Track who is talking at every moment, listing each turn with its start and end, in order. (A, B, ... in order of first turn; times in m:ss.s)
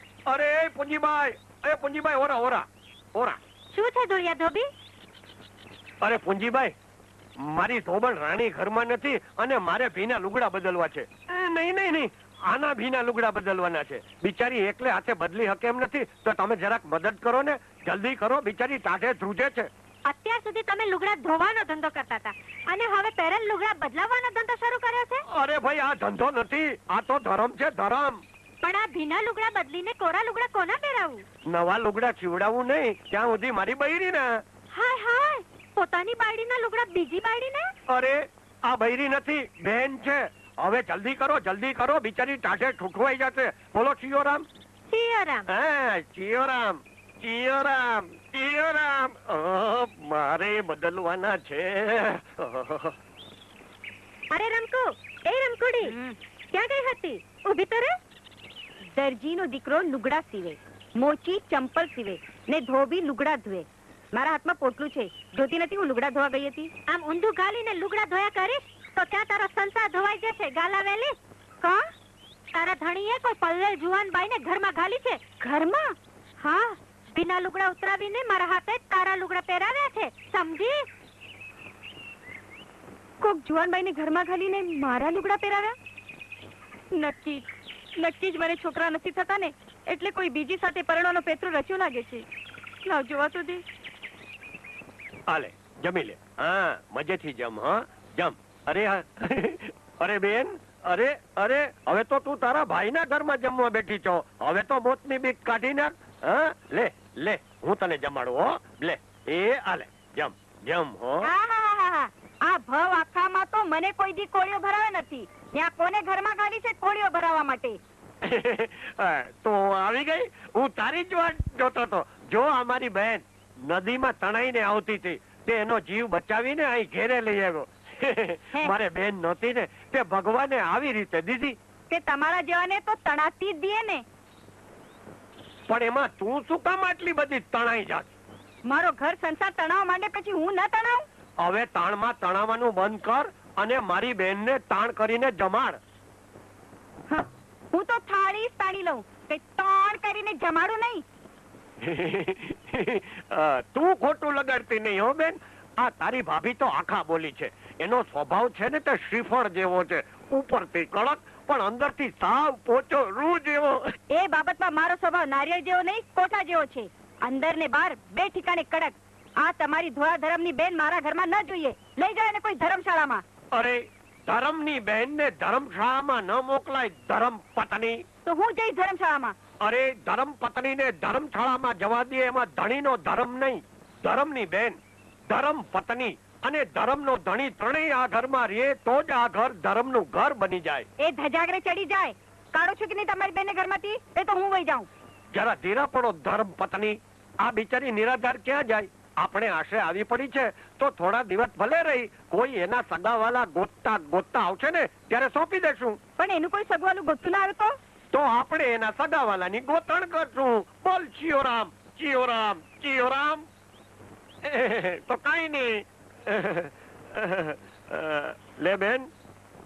0:00.3-0:03.4 A
0:03.7-0:04.7 B
0:06.0-0:06.7 A
0:07.4-0:19.7 A
0:20.0-0:25.2 B
0:25.3-0:28.2 A
0:28.6-0:31.2 B
0:31.5-0:34.4 A
0:34.7-0:37.7 B
0:37.9-0:44.4 A
0:44.9-0:45.5 B
0:45.5-0:52.9 A
0:54.3-0:55.9 B
0:55.8-0:56.2 C
0:56.5-0:58.0 B
0:59.0-1:06.7 C
1:06.9-1:11.2 B
1:12.5-1:15.2 B
1:15.4-1:15.9 C
1:16.5-1:20.9 B
1:23.2-1:25.7 C
1:26.9-1:27.5 C
1:28.0-1:32.2 C
1:32.8-1:33.6 C
1:35.3-1:51.3 A
1:51.2-1:57.8 C
1:58.2-2:11.6 A
2:11.9-2:14.0 C
2:15.7-2:18.1 A
2:18.7-2:21.0 C
2:21.4-2:25.8 A
2:27.1-2:31.0 C
2:31.8-2:43.9 A
2:44.1-2:53.2 C
2:53.5-2:58.0 A
2:58.2-2:59.3 C
2:59.6-3:04.8 A
3:05.3-3:10.8 A
3:11.0-3:14.9 C
3:15.3-3:26.0 A
3:26.2-3:27.7 C
3:28.1-3:33.4 A
3:34.4-3:39.1 A